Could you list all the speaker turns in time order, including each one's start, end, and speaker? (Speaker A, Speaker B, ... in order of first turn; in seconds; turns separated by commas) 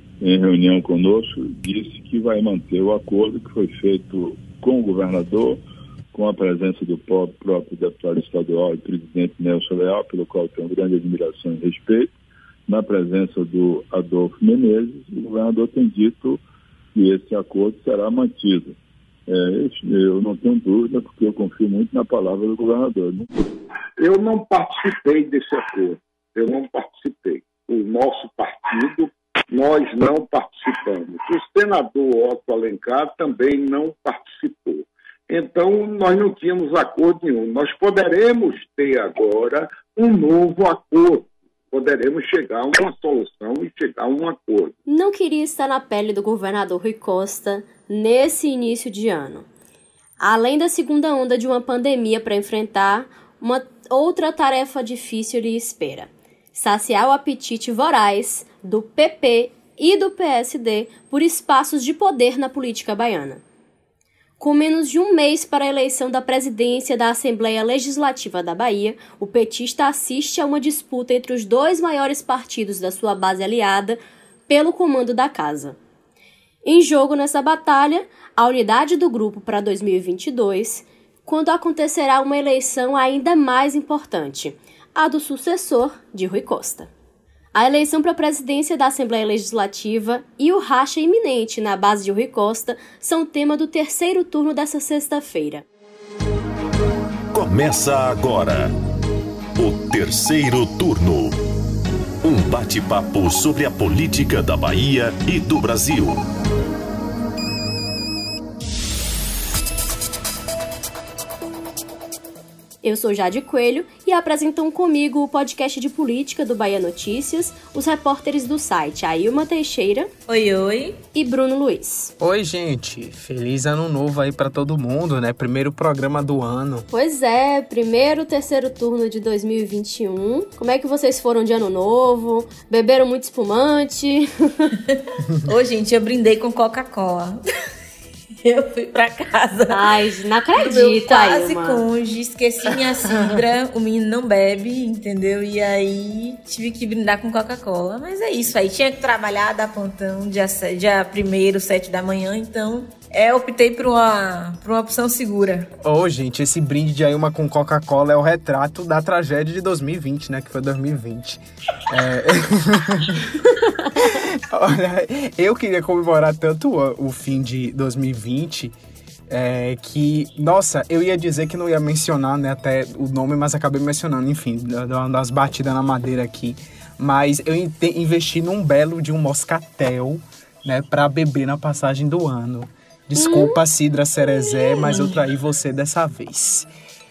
Speaker A: 0.2-12.1, Speaker A: 12.7-16.4, Speaker A: 16.9-23.3, Speaker B: 24.0-44.7, Speaker C: 44.9-49.5, Speaker C: 50.2-63.4, Speaker C: 64.4-75.8, Speaker C: 76.6-86.9, Speaker C: 87.5-95.7, Speaker D: 97.3-98.7, Speaker D: 99.6-101.4, Speaker D: 102.2-106.2, Speaker C: 112.8-120.1, Speaker E: 120.3-121.0, Speaker C: 121.1-122.1, Speaker F: 122.2-126.9, Speaker C: 126.9-134.7, Speaker E: 135.4-137.4, Speaker E: 138.4-139.9, Speaker C: 139.7-141.8, Speaker E: 140.6-155.7, Speaker F: 155.8-163.4, Speaker F: 163.9-168.7, Speaker F: 169.3-186.7, Speaker C: 183.2-183.6